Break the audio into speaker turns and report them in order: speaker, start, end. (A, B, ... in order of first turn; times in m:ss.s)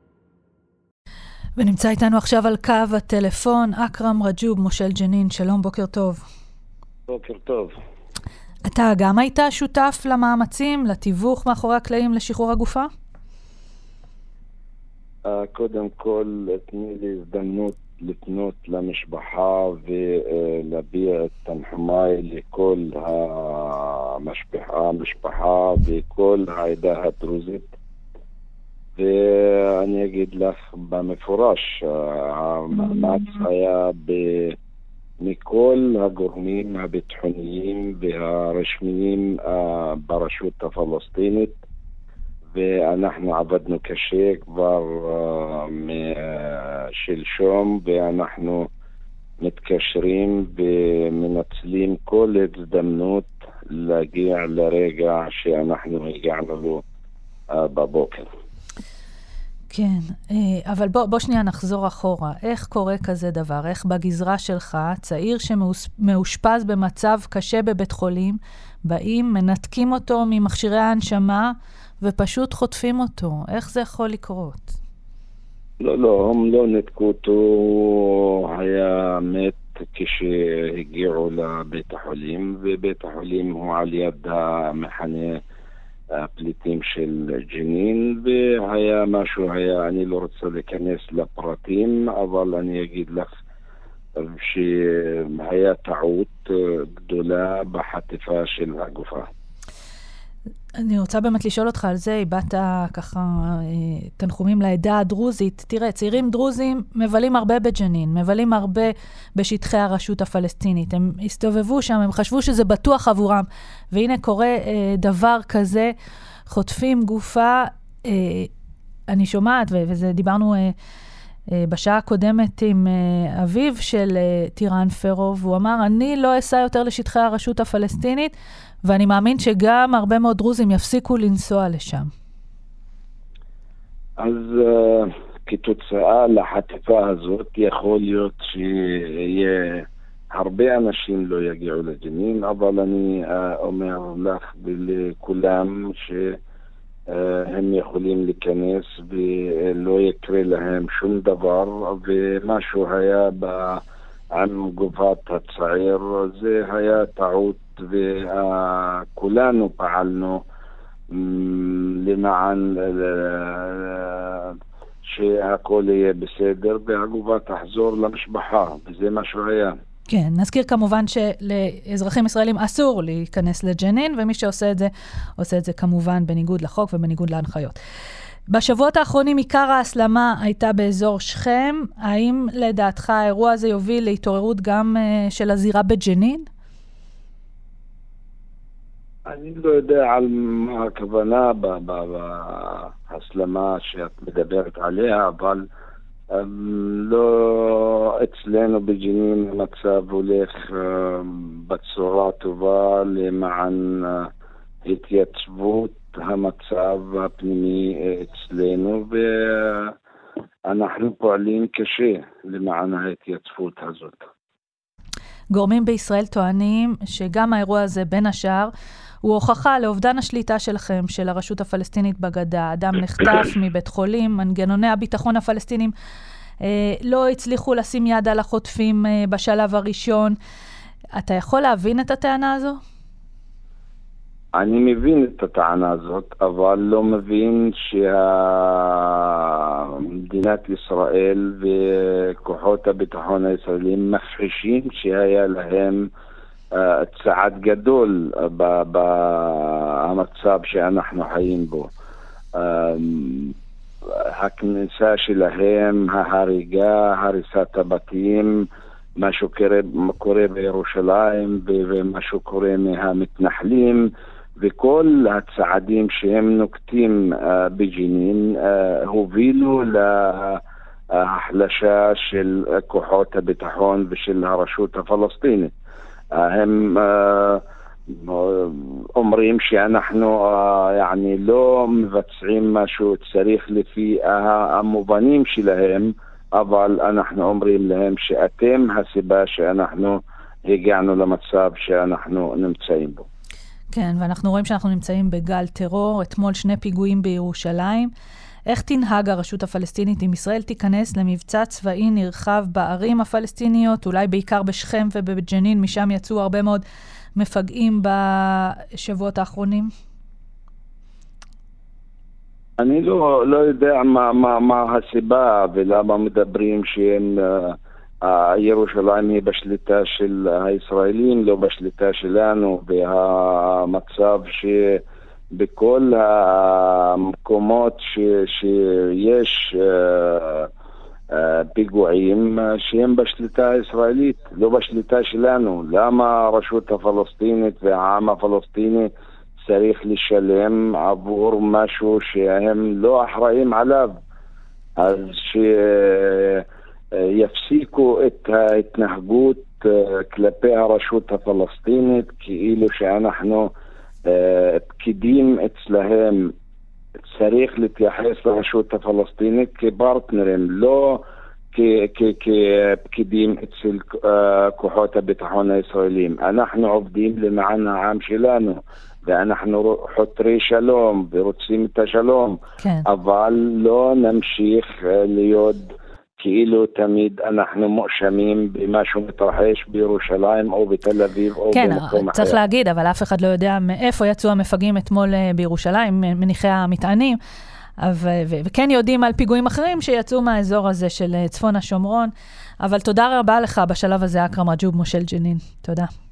0:01.6-0:06.2 A
0:07.1-0:07.8 B
0:08.7-0:12.9 A
0:15.3-0:27.7 B
0:29.0-0:34.5 B
0:35.2-0:41.6 B
0:42.5-0:48.7 B
0:49.4-0:56.8 B
0:57.5-0:58.3 B
0:59.7-1:14.8 A
1:15.8-1:25.4 B
1:26.2-1:33.3 B
1:34.2-1:39.3 B
1:40.8-1:55.9 A
1:56.5-1:58.5 A
1:59.1-2:00.8 A
2:01.6-2:08.3 A
2:08.8-2:12.1 A
2:14.2-2:26.4 B
2:27.1-2:33.8 B
2:34.3-2:40.4 B
2:41.1-2:49.7 B
2:50.1-2:57.8 A
2:58.5-3:06.5 A
3:09.3-3:15.7 B
3:16.3-3:24.3 B
3:24.9-3:29.9 B
3:30.7-3:34.2 B
3:35.5-3:38.7 A
3:39.2-3:45.9 A
3:46.6-3:50.4 A
3:51.2-3:52.8 A
3:54.6-4:06.1 B
4:06.8-4:11.9 B
4:12.6-4:13.6 B
4:14.1-4:18.6 B
4:19.2-4:24.1 B
4:24.6-4:30.6 B
4:31.2-4:35.7 B
4:36.4-4:53.3 B
4:53.9-4:58.1 A
4:58.7-5:06.8 A
5:07.4-5:09.9 A
5:12.8-5:25.0 B
5:25.6-5:30.7 B
5:31.3-5:44.1 B
5:45.0-5:53.7 B
5:54.3-5:56.5 B
5:57.2-6:12.6 B
6:12.8-6:13.1 A
6:13.1-6:22.6 B
6:21.7-6:27.4 A
6:28.0-6:32.3 A
6:32.8-6:36.1 A